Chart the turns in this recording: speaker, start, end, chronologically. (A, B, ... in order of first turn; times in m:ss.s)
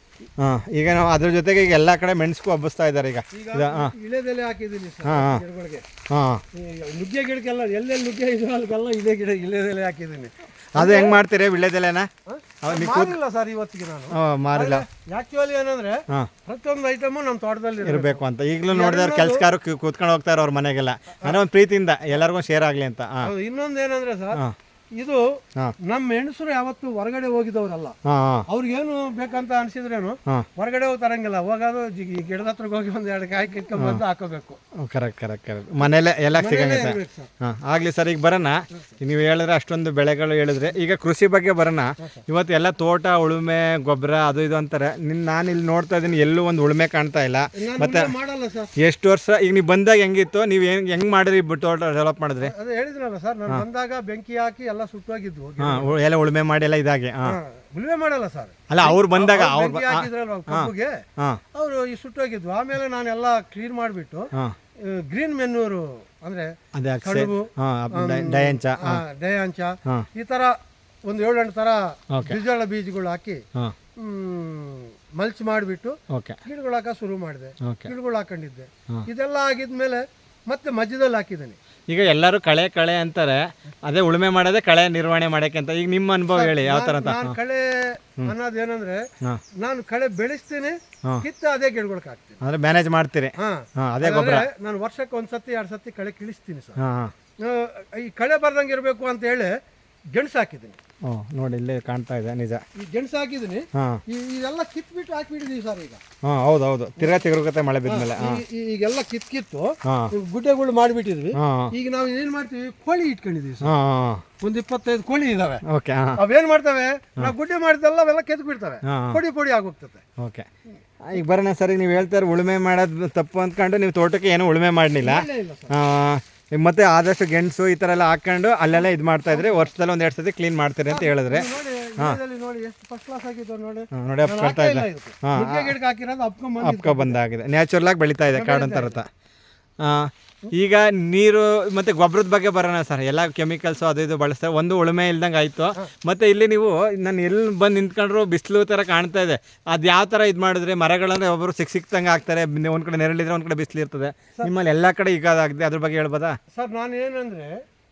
0:00.4-0:03.9 A
0:03.3-0:05.8 B
0:05.0-0:05.4 A
0:06.1-0:06.4 A
0:06.5-0:11.2 B
0:10.7-0:12.1 A
0:12.3-0:19.4 B
0:12.6-0:13.1 A
0:14.1-0:14.8 A
0:17.8-0:23.3 A
0:23.2-0:24.4 B
0:25.0-0:25.2 B
0:25.8-0:28.0 B
0:28.0-0:28.4 A
0:28.5-0:34.6 B
0:34.8-0:48.1 A
0:36.3-0:37.3 B
0:47.6-0:48.7 B
0:48.8-0:52.5 A
0:52.4-0:55.9 B
0:55.6-0:57.4 A
0:57.2-1:04.3 B
0:58.7-1:01.4 A
1:04.8-1:13.4 B
1:06.7-1:09.0 A
1:12.1-1:12.4 A
1:14.0-1:21.6 B
1:16.1-1:16.4 A
1:17.6-1:17.9 A
1:21.9-1:27.3 A
1:26.3-1:29.0 B
1:29.6-1:32.4 B
1:32.4-1:34.5 A
1:33.4-1:36.8 B
1:36.8-1:37.1 A
1:37.4-1:39.5 B
1:40.1-1:40.8 B
1:41.0-1:42.6 A
1:42.8-1:46.0 B
1:43.7-1:44.0 A
1:46.2-1:48.4 A
1:47.8-1:53.7 B
1:49.8-1:50.1 A
1:51.3-1:51.7 A
1:53.6-1:54.2 A
1:54.4-1:55.6 B
1:55.6-1:56.2 A
1:56.2-2:00.0 B
1:58.8-1:59.2 A
2:00.2-2:00.5 A
2:01.1-2:12.2 A
2:05.0-2:05.7 B
2:08.7-2:09.7 B
2:10.9-2:17.2 B
2:13.9-2:15.7 A
2:16.6-2:19.1 A
2:18.3-2:19.0 B
2:19.8-2:36.4 A
2:36.5-2:37.6 B